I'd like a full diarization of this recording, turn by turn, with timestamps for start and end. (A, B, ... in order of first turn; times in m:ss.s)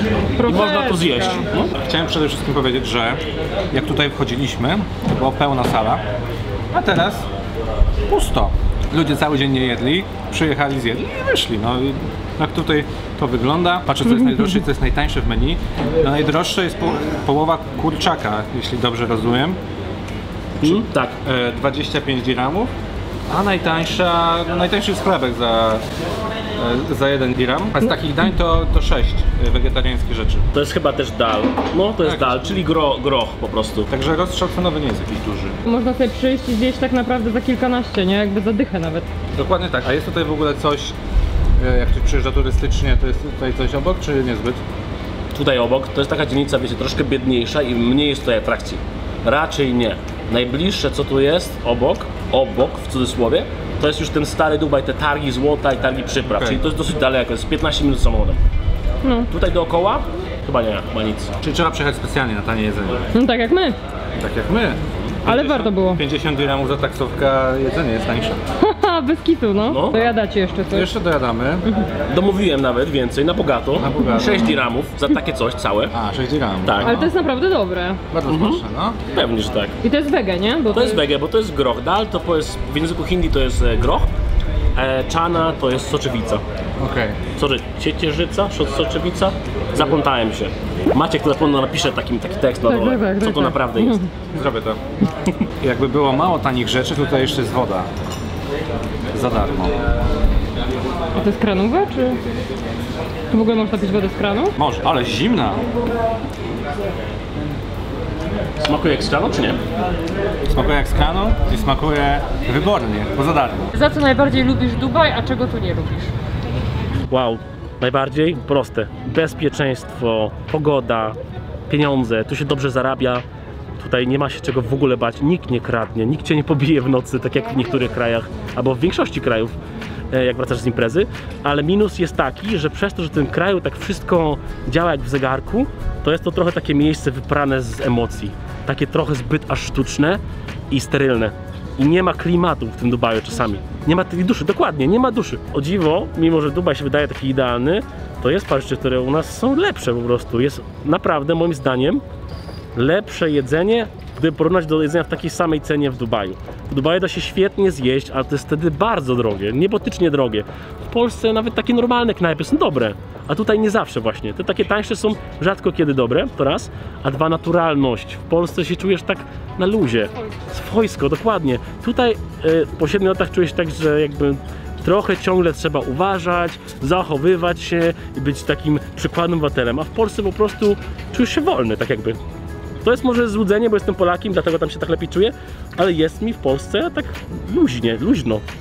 0:00.4-0:01.7 A
0:00.4-0:01.5 B
0:01.7-0:06.0 C
0:06.7-0:07.3 C
0:08.1-0:19.6 C
0:20.6-0:21.2 A
0:20.6-0:22.7 C
0:23.3-0:25.8 C
0:26.6-0:30.4 C
0:30.5-0:33.9 A
0:32.0-0:32.6 C
0:33.9-0:35.6 C
0:35.7-0:39.1 B
0:39.4-0:41.0 C
0:41.6-0:44.6 C
0:45.3-0:58.4 A
0:56.2-0:56.6 C
0:59.0-0:59.3 B
0:59.3-1:01.4 A
1:01.4-1:03.0 C
1:03.1-1:03.8 B
1:04.2-1:08.4 C
1:05.2-1:06.0 B
1:08.6-1:10.9 B
1:09.7-1:10.0 A
1:10.7-1:11.7 C
1:12.1-1:15.9 A
1:13.8-1:14.5 C
1:15.9-1:17.1 C
1:16.6-1:16.9 A
1:16.8-1:18.0 B
1:18.1-1:19.0 C
1:18.3-1:19.7 A
1:19.8-1:21.0 B
1:20.7-1:24.1 A
1:24.7-1:26.4 A
1:26.8-1:27.2 C
1:27.3-1:34.1 A
1:32.6-1:34.0 B
1:34.3-1:34.8 C
1:35.6-1:37.9 C
1:39.1-1:39.8 C
1:41.2-1:42.2 B
1:43.3-1:44.5 B
1:44.6-1:45.6 C
1:48.6-1:49.6 A
1:50.5-1:53.7 C
1:53.7-1:56.1 B
1:57.1-2:01.2 A
2:01.7-2:03.2 A
2:03.8-2:09.5 A
2:10.1-2:32.0 A
2:32.7-3:02.2 A
3:02.8-3:08.4 A